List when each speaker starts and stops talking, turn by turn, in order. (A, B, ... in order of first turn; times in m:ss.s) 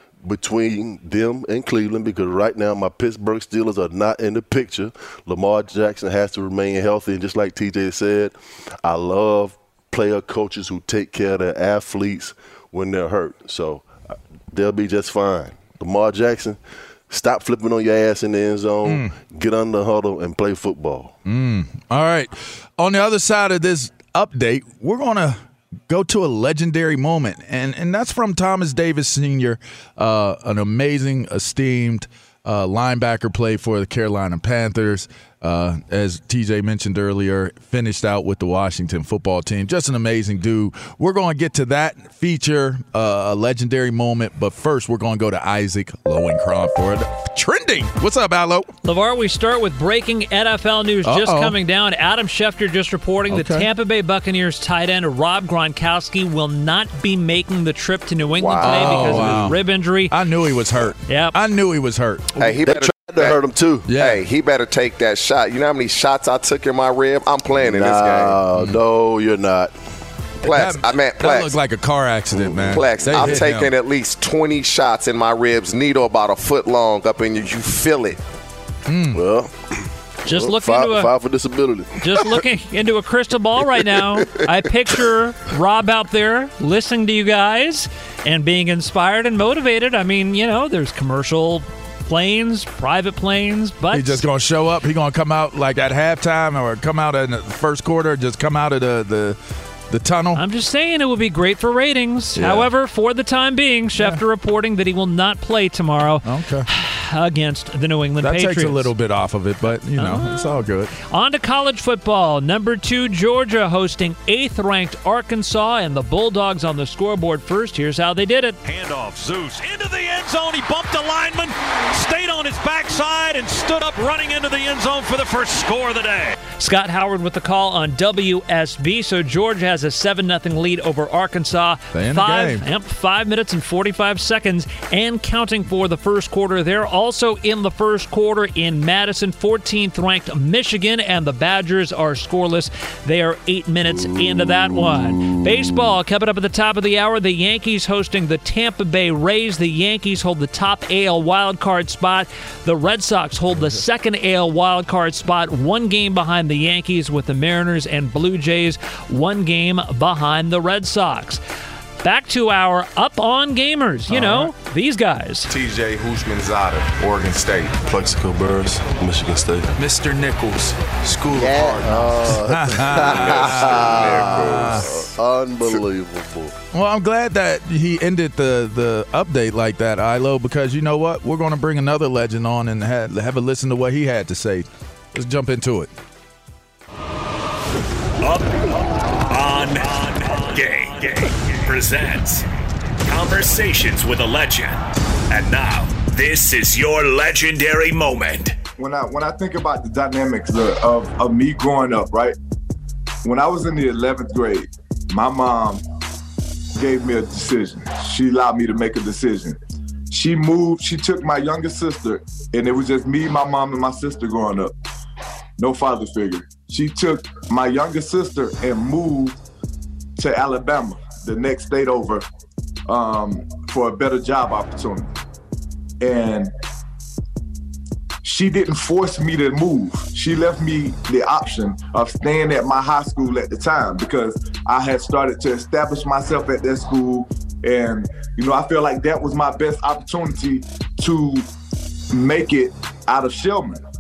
0:00.2-0:21.1 A
0:18.8-0:19.1 B
0:21.2-0:48.7 B
0:48.8-1:00.2 C
0:51.0-0:51.5 B
0:53.3-0:53.7 B
0:58.3-0:59.3 D
0:58.6-1:02.6 B
1:01.1-1:01.4 C
1:02.4-1:03.4 D
1:02.6-1:03.9 A
1:03.9-1:04.2 B
1:04.0-1:08.4 D
1:07.6-1:09.7 A
1:10.4-1:11.6 D
1:10.4-1:13.7 B
1:12.4-1:13.3 A
1:12.7-1:18.2 D
1:18.9-1:19.2 B
1:19.1-1:22.3 A
1:20.2-1:21.1 C
1:22.0-1:34.2 C
1:33.9-1:39.4 B
1:39.9-1:40.4 B
1:40.3-1:48.9 C
1:42.4-1:42.7 B
1:44.0-1:44.2 B
1:46.2-1:46.6 B
1:48.2-1:50.9 B
1:50.0-1:58.6 C
1:58.6-2:06.4 E
2:06.5-2:41.4 C
2:11.9-2:12.6 B
2:23.9-2:25.9 A
2:42.0-2:45.5 C
2:44.1-2:44.5 B
2:45.5-2:48.9 B
2:48.0-2:49.7 A
2:49.8-2:54.9 B
2:51.3-2:56.6 A
2:52.9-2:55.1 D
2:56.7-3:05.9 B
3:08.2-3:08.7 F
3:09.3-3:12.4 F
3:13.1-3:18.6 F
3:18.8-3:22.4 G
3:23.2-3:25.8 G
3:26.8-3:29.6 G
3:30.1-3:34.7 G
3:35.6-3:39.4 G
3:40.2-3:42.2 G
3:42.9-3:45.1 G
3:46.0-3:46.5 G
3:48.2-4:01.4 G
4:02.1-4:03.8 G